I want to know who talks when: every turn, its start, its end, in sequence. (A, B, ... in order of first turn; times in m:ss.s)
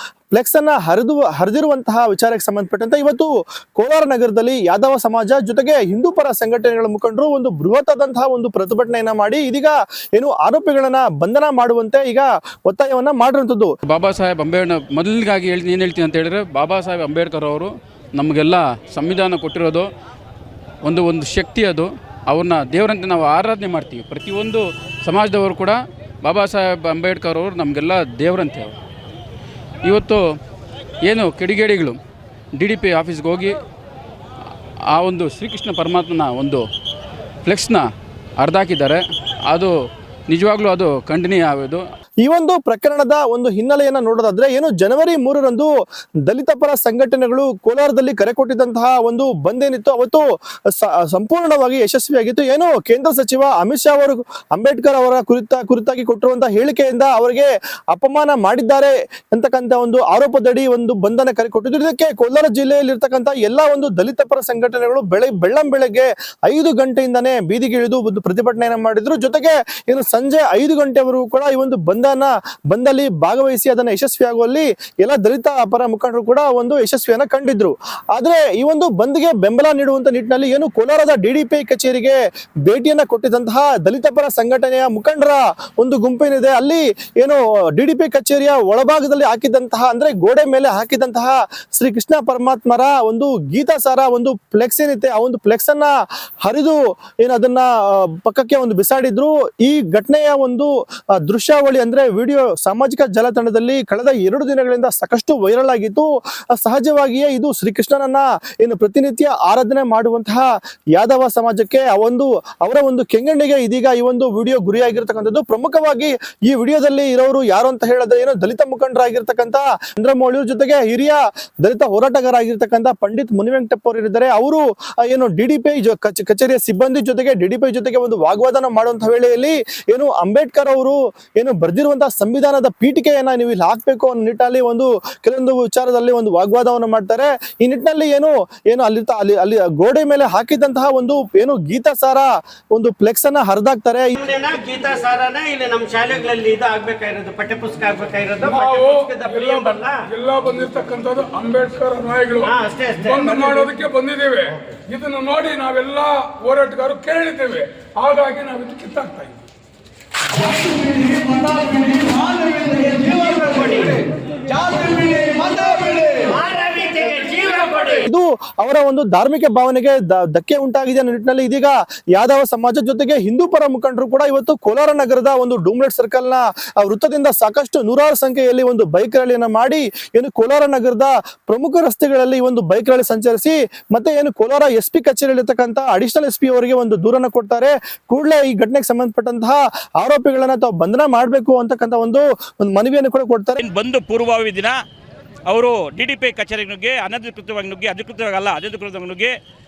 0:00.3-0:13.7 A
0:13.9-0:19.9 B
0:20.8-0:28.7 B
0:29.8-0:30.2 B
0:31.0-0:32.0 B
0:32.6-0:33.6 B
0:34.9-0:36.6 B
0:37.4-0:37.8 B
0:38.4-0:39.7 B
0:40.3-0:41.8 B
0:42.2-0:45.7 A
0:46.3-0:50.2 A
0:50.8-1:35.9 A
1:36.4-1:40.7 A
1:41.2-2:24.2 A
2:24.2-2:30.0 C
2:28.4-2:39.4 D
2:32.4-2:33.7 C
2:40.6-2:48.0 C
2:48.0-3:13.6 A
3:13.6-3:14.8 E
3:15.5-3:19.3 E